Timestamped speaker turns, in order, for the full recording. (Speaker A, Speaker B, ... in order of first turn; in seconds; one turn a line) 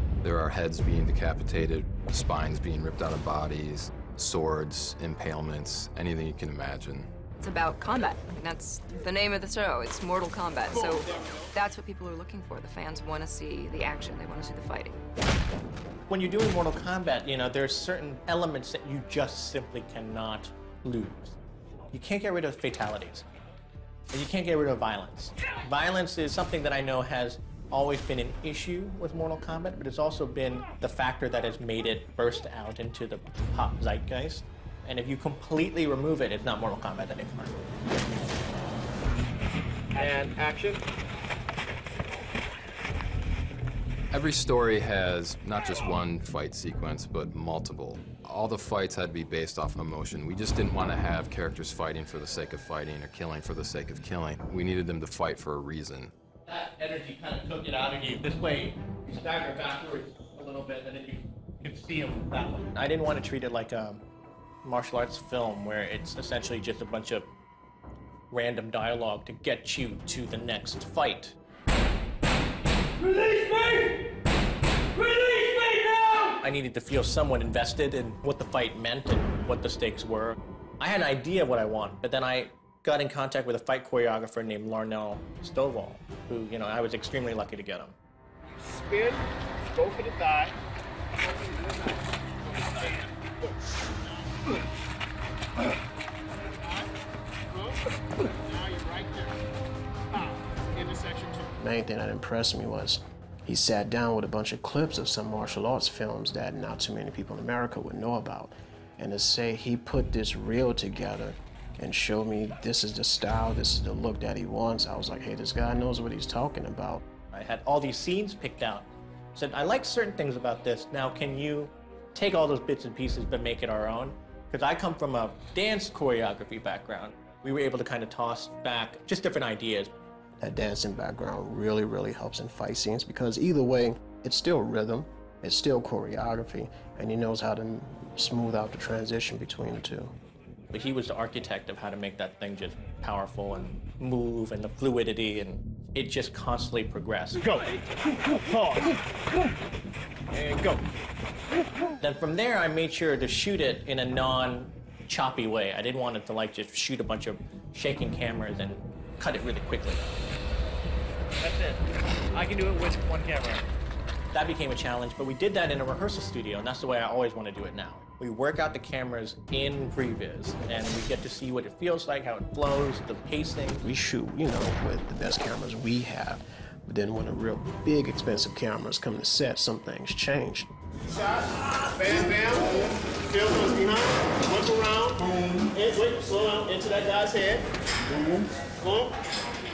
Speaker A: 0.2-7.1
Speaker B: 7.4-14.9
Speaker C: 10.7-11.4
Speaker D: 16.1-21.4
Speaker D: 21.9-23.2
Speaker D: 24.1-37.5
Speaker D: 39.9-40.8
Speaker A: 44.1-56.1
Speaker D: 56.5-64.0
Speaker D: 64.6-67.3
Speaker D: 68.3-71.3
Speaker D: 76.3-88.0
Speaker C: 88.7-90.5
Speaker C: 92.6-93.1
Speaker C: 98.4-99.3
Speaker C: 100.7-101.5
Speaker E: 101.6-117.0
Speaker D: 117.3-129.9
Speaker E: 130.4-140.1
Speaker D: 140.7-147.6
Speaker D: 148.5-148.8
Speaker D: 150.3-150.8
Speaker D: 152.0-160.1
Speaker D: 161.4-163.6
Speaker D: 164.3-173.8
Speaker E: 173.8-180.7
Speaker C: 181.2-187.7
Speaker C: 188.8-189.1